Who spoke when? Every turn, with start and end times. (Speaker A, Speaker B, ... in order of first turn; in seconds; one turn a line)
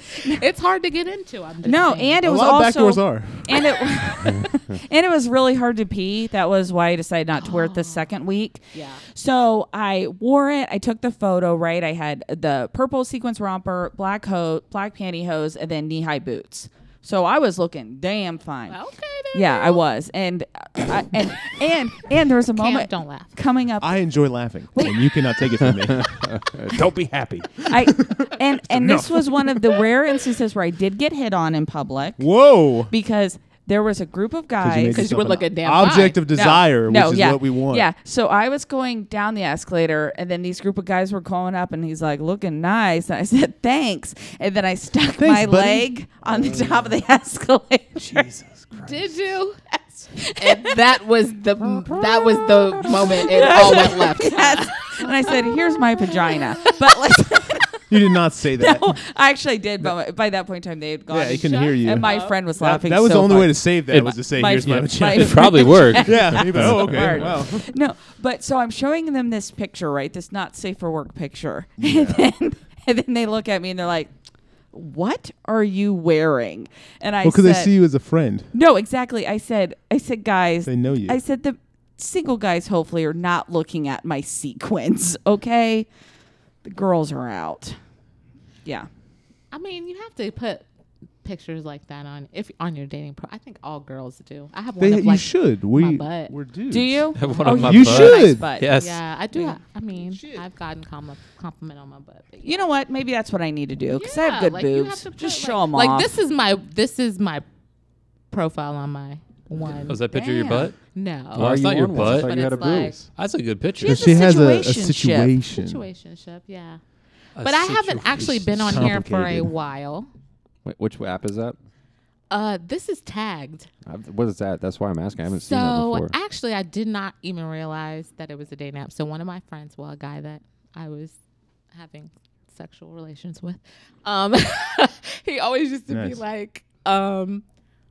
Speaker A: 0.1-2.2
Speaker B: 1.6-18.8
Speaker C: 2.2-4.4
Speaker A: 7.3-8.1
Speaker A: 8.7-9.0
Speaker A: 18.7-19.8
Speaker B: 19.3-24.0
Speaker A: 22.5-23.4
Speaker C: 23.8-29.9
Speaker B: 24.7-25.1
Speaker D: 25.6-26.9
Speaker B: 27.7-32.3
Speaker C: 32.2-32.9
Speaker B: 32.9-35.1
Speaker C: 34.6-37.9
Speaker A: 34.9-36.6
Speaker B: 36.8-48.3
Speaker C: 45.1-45.9
Speaker C: 48.1-48.9
Speaker E: 48.2-48.6
Speaker A: 48.8-49.6
Speaker B: 50.2-50.6
Speaker A: 50.3-56.9
Speaker C: 51.6-53.2
Speaker B: 53.0-57.8
Speaker C: 57.9-59.0
Speaker B: 58.6-74.1
Speaker C: 61.1-67.7
Speaker A: 61.4-62.4
Speaker E: 63.9-67.2
Speaker D: 66.6-67.2
Speaker C: 71.8-72.3
Speaker B: 74.7-77.7
Speaker C: 77.2-78.5
Speaker B: 78.5-85.9
Speaker C: 80.7-81.2
Speaker B: 86.6-87.8
Speaker B: 88.6-88.9
Speaker A: 89.5-90.7
Speaker A: 91.2-96.3
Speaker C: 94.8-98.5
Speaker B: 96.7-98.7
Speaker E: 97.1-99.0
Speaker A: 97.2-97.6
Speaker A: 98.7-102.7
Speaker C: 100.1-100.4
Speaker B: 102.4-106.1
Speaker A: 103.9-107.4
Speaker A: 108.3-110.0
Speaker E: 109.8-110.8
Speaker B: 110.1-110.7
Speaker A: 110.9-113.0
Speaker D: 111.3-113.1
Speaker E: 111.3-114.2
Speaker B: 113.8-115.3
Speaker C: 113.8-115.8
Speaker A: 115.5-116.8
Speaker E: 117.3-118.9
Speaker A: 117.4-120.1
Speaker C: 118.2-119.5
Speaker D: 120.6-121.5
Speaker A: 122.3-123.7
Speaker D: 123.8-126.1
Speaker A: 125.3-131.2
Speaker A: 131.7-137.4
Speaker C: 135.9-136.2